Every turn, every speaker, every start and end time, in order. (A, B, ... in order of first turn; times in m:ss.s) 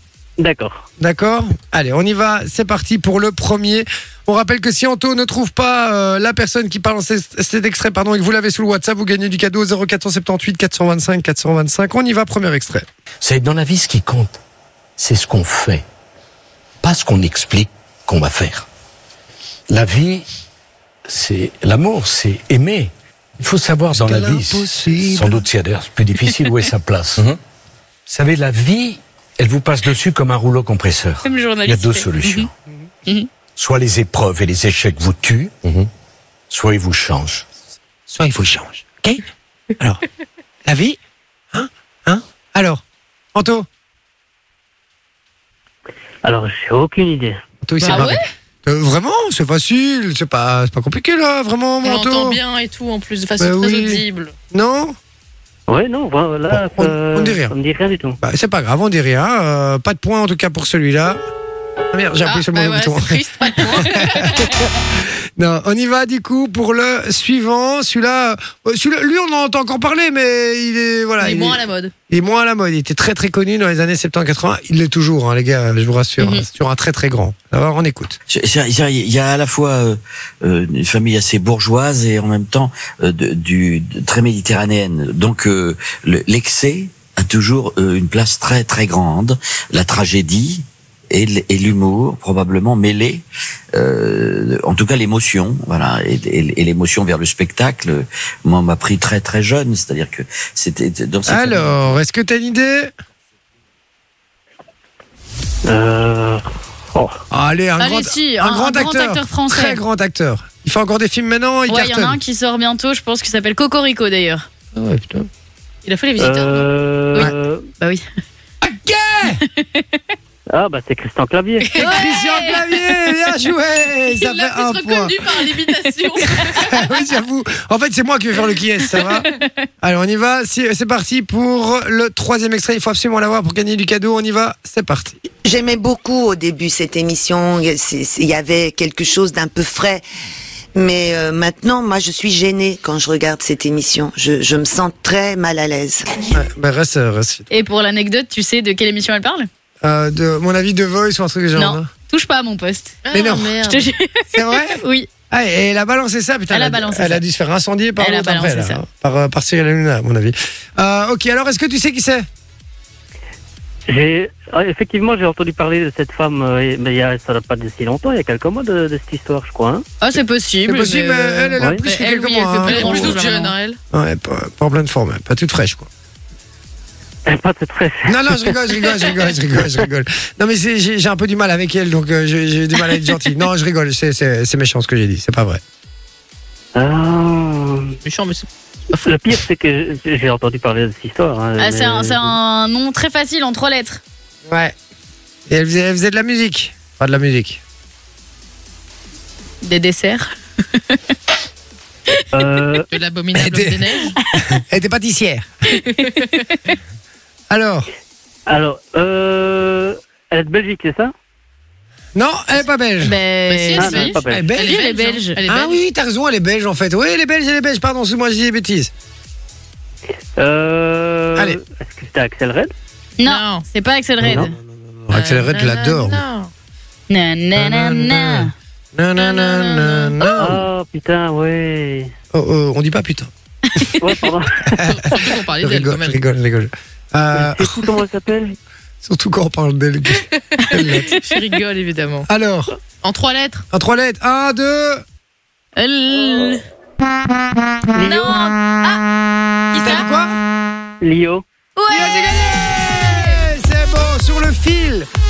0:00.4-0:00.8 A
0:01.0-0:12.9 B
0:13.2-0:14.4 C
0:15.0-0:15.8 C
0:16.8-0:18.7 C
0:19.7-0:20.2 C
0:21.1-0:27.4 C
0:23.9-0:25.4 B
0:28.1-0:32.5 C
0:31.2-0:32.5 D
0:33.6-0:35.9 C
0:36.5-0:37.4 C
0:38.1-0:39.2 B
0:40.7-0:41.0 B
0:41.5-0:42.8 B
0:43.4-0:43.7 B
0:46.2-0:47.4 A
0:47.6-0:52.4 B
0:47.8-0:48.2 D
0:51.8-0:54.3 E
0:53.4-0:55.0 B
0:55.7-0:58.2 A
0:56.5-0:57.5 B
0:58.2-1:01.2 B
1:01.9-1:18.2 B
1:02.2-1:04.6 E
1:11.2-1:11.9 E
1:16.2-1:16.5 D
1:18.3-1:41.9 F
1:41.3-1:42.9 B
1:45.6-1:47.2 A
1:47.3-1:52.2 B
1:47.8-1:49.8 D
1:51.7-1:54.5 D
1:54.7-1:55.3 B
1:55.8-1:56.6 E
1:56.2-1:57.7 A
1:57.2-1:58.0 D
1:58.6-1:59.4 B
1:59.6-1:59.8 D
2:00.5-2:01.8 A
2:01.8-2:05.2 B
2:01.8-2:02.6 D
2:04.2-2:06.7 E
2:06.4-2:15.2 B
2:09.0-2:09.5 D
2:15.4-2:20.0 G
2:20.8-2:26.1 G
2:26.3-2:27.5 B
2:27.5-2:29.5 D
2:29.8-2:31.9 B
2:31.6-2:33.0 D
2:33.0-2:33.9 E
2:33.1-2:33.6 B
2:33.6-2:35.1 D
2:34.3-2:42.3 B
2:36.5-2:37.2 D
2:38.0-2:38.8 D
2:43.9-2:49.8 A
2:50.0-2:53.5 D
2:50.6-2:53.2 B
2:52.7-2:53.8 E
2:53.9-2:55.9 B
2:57.3-2:59.0 A
2:58.0-3:05.6 B
3:06.8-3:08.0 A
3:08.0-3:09.1 E
3:09.0-3:12.4 A
3:11.6-3:14.0 D
3:14.5-3:14.8 B
3:15.5-3:17.6 B
3:19.6-3:21.0 D
3:22.3-3:22.9 A
3:22.9-3:24.2 E
3:23.3-3:23.8 B
3:24.4-3:25.5 B
3:25.7-3:26.7 D
3:27.5-3:27.9 B
3:28.5-3:31.1 A
3:32.2-3:33.2 B
3:33.0-3:35.4 D
3:33.5-3:35.8 E
3:33.8-3:34.5 A
3:34.3-3:34.7 B
3:35.5-3:38.9 B
3:40.4-3:42.7 A
3:43.2-3:44.6 D
3:43.2-3:43.7 E
3:44.2-3:46.2 B
3:44.2-3:44.5 A
3:45.1-3:46.5 E
3:47.1-3:48.5 D
3:47.6-3:50.6 B
3:49.2-3:50.2 E
3:50.4-3:52.1 A
3:52.3-3:53.3 B
3:54.0-3:54.8 A
3:54.7-3:57.8 B
3:54.9-3:56.2 E
3:57.3-3:58.6 A
3:59.0-4:01.1 B
4:01.1-4:02.3 E
4:02.3-4:02.7 B
4:03.0-4:03.6 E
4:03.7-4:05.0 B
4:05.8-4:06.6 D
4:08.0-4:09.0 D
4:08.0-4:08.4 A
4:09.7-4:10.1 D
4:09.8-4:10.4 B
4:11.0-4:11.4 A
4:11.8-4:13.3 D
4:11.9-4:15.1 B